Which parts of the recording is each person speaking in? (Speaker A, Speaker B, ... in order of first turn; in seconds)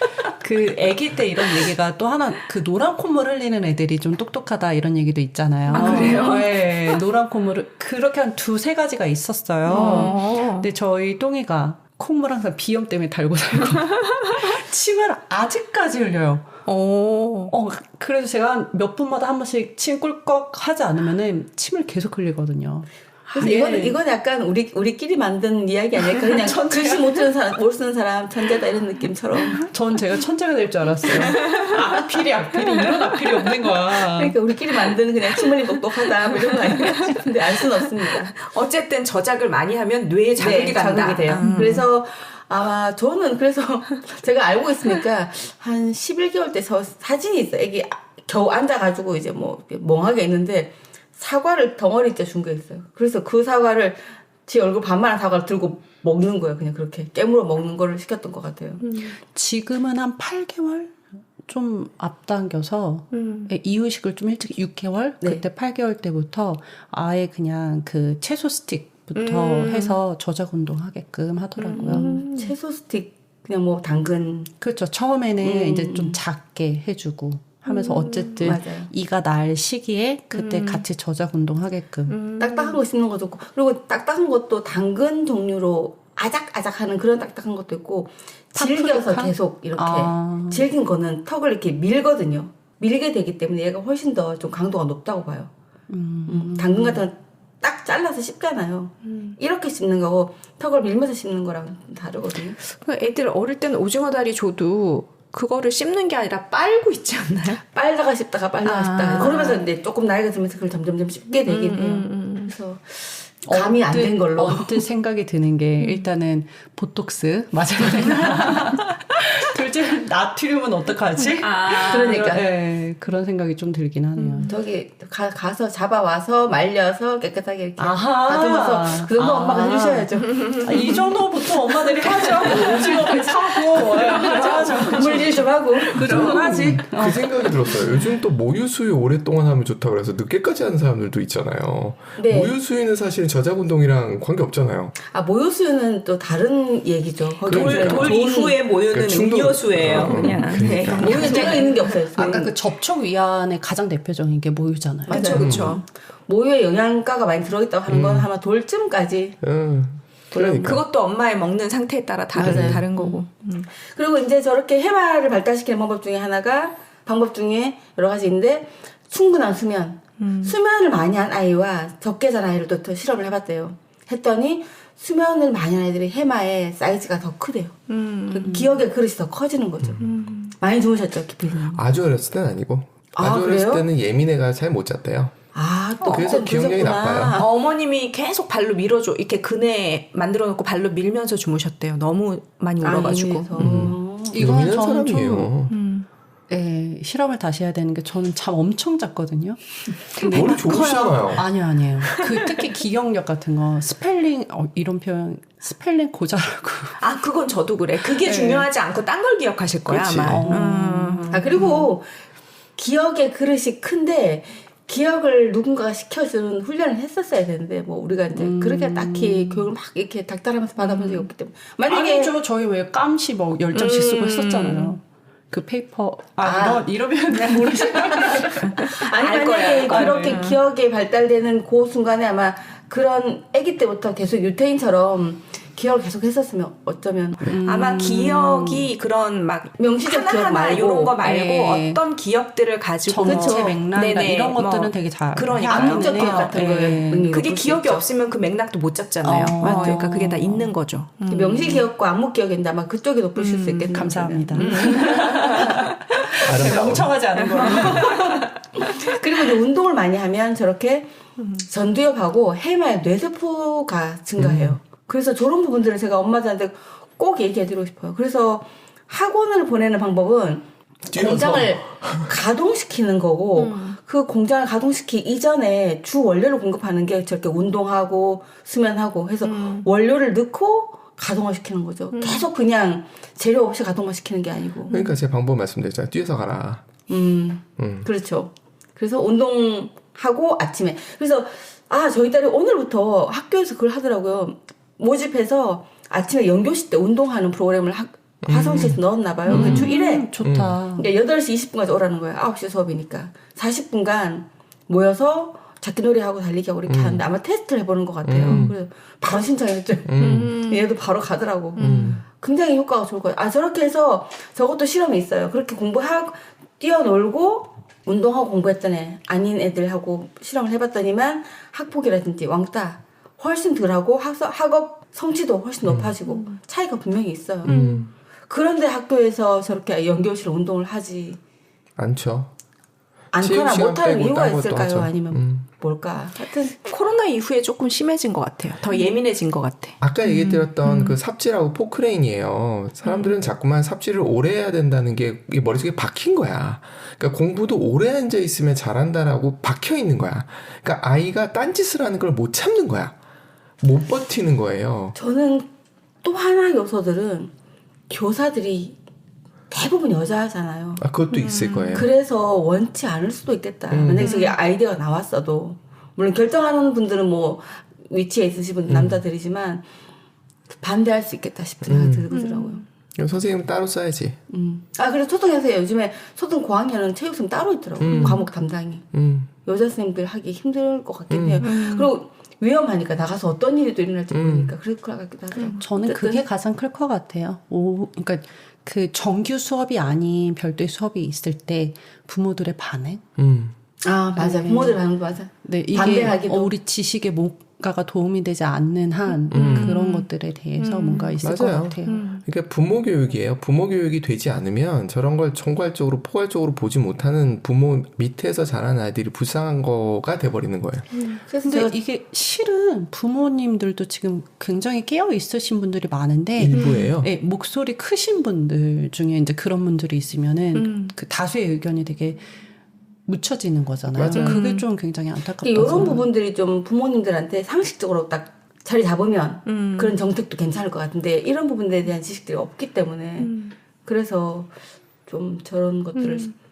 Speaker A: 0.4-16.5, 17.5-24.0, 26.3-27.1, 29.6-34.3, 41.4-41.8, 59.2-72.2, 74.6-82.2, 88.5-90.6, 95.9-97.0, 113.5-124.5, 127.8-138.0, 151.1-155.7, 162.4-163.1, 178.5-178.7, 194.3-195.5, 196.5-207.0, 208.1-208.7, 210.2-211.7, 218.3-219.7, 221.9-228.9, 229.9-230.5, 237.4-238.9, 241.2-242.0, 243.1-247.3, 249.2-250.7, 253.9-258.5, 299.5-301.1, 385.8-393.2, 394.4-395.0, 395.6-402.3, 411.6-422.4, 423.3-426.3
Speaker B: 5.7-7.0, 9.7-10.7, 16.6-17.5, 31.1-31.7, 38.4-41.8, 58.8-59.1, 63.1-63.5, 69.1-69.9, 71.6-72.5, 77.7-78.4, 80.3-80.8, 82.1-82.8, 102.7-107.6, 108.6-109.6, 111.5-112.5, 115.8-116.1, 121.3-122.3, 124.2-124.5, 130.3-131.1, 131.7-136.9, 147.4-152.3, 155.1-155.8, 160.3-163.7, 170.2-170.5, 177.9-178.5, 180.0-180.5, 186.0-186.4, 187.3-193.7, 195.7-196.1, 207.0-211.8, 223.7-225.0, 228.6-230.6, 237.6-251.9, 253.3-253.9, 254.5-256.5, 257.4-259.0, 273.6-274.0, 279.4-279.9, 282.1-282.4, 299.5-300.2, 310.2-310.9, 311.8-312.2, 326.2-326.6, 327.6-328.1, 336.8-341.2, 343.0-343.3, 361.3-362.1, 364.2-364.6, 372.3-372.8, 378.0-378.4, 381.6-382.1, 399.5-401.4, 402.1-402.4, 416.7-417.1, 420.7-421.1, 424.3-424.9, 429.6-430.2, 433.4-433.7, 436.1-436.5
Speaker C: 5.8-6.2, 9.7-10.1, 23.3-29.7, 34.1-38.4, 40.4-58.8, 72.3-74.5, 75.4-76.2, 78.4-78.9, 82.4-95.5, 96.2-102.6, 107.7-114.8, 121.8-122.4, 124.5-130.6, 134.1-136.5, 142.2-142.5, 145.0-148.6, 150.9-152.5, 155.1-159.4, 160.3-160.7, 162.4-163.1, 163.7-177.8, 178.3-181.8, 183.1-183.8, 185.5-187.4, 192.8-194.5, 211.3-212.1, 212.8-222.3, 226.4-237.5, 239.8-241.1, 243.2-243.7, 245.6-248.0, 249.6-250.0, 251.3-255.8, 258.8-261.1, 261.6-284.9, 287.1-300.3, 300.9-327.7, 328.5-331.4, 333.3-336.8, 355.1-355.7, 356.2-357.5, 358.1-359.0, 359.7-361.0, 361.9-369.8, 370.8-372.8, 374.5-379.1, 379.6-386.4, 394.0-396.7, 411.4-411.9, 425.6-434.7, 435.3-436.5
Speaker D: 136.2-144.9, 147.4-148.1, 148.9-151.5, 155.4-155.8, 157.9-158.3, 159.4-160.8, 162.4-162.8, 181.7-185.3, 186.0-187.4, 193.6-195.7, 200.2-201.5, 209.9-210.5, 256.4-257.1, 264.4-264.8, 271.1-272.3, 284.9-286.8, 287.8-288.1, 298.4-299.9, 300.4-300.7, 306.9-307.2, 308.2-308.7, 310.1-310.6, 311.8-312.2, 325.9-326.1, 327.6-328.1, 332.0-332.5, 333.4-335.6, 340.0-353.1, 353.8-355.1, 361.0-362.1, 363.9-364.4, 368.9-369.2, 371.8-372.2, 373.1-374.4, 378.0-378.5, 379.1-379.5, 381.3-381.8, 384.3-384.7, 393.4-393.7, 399.5-400.0, 401.4-411.1, 416.6-417.3, 424.1-424.6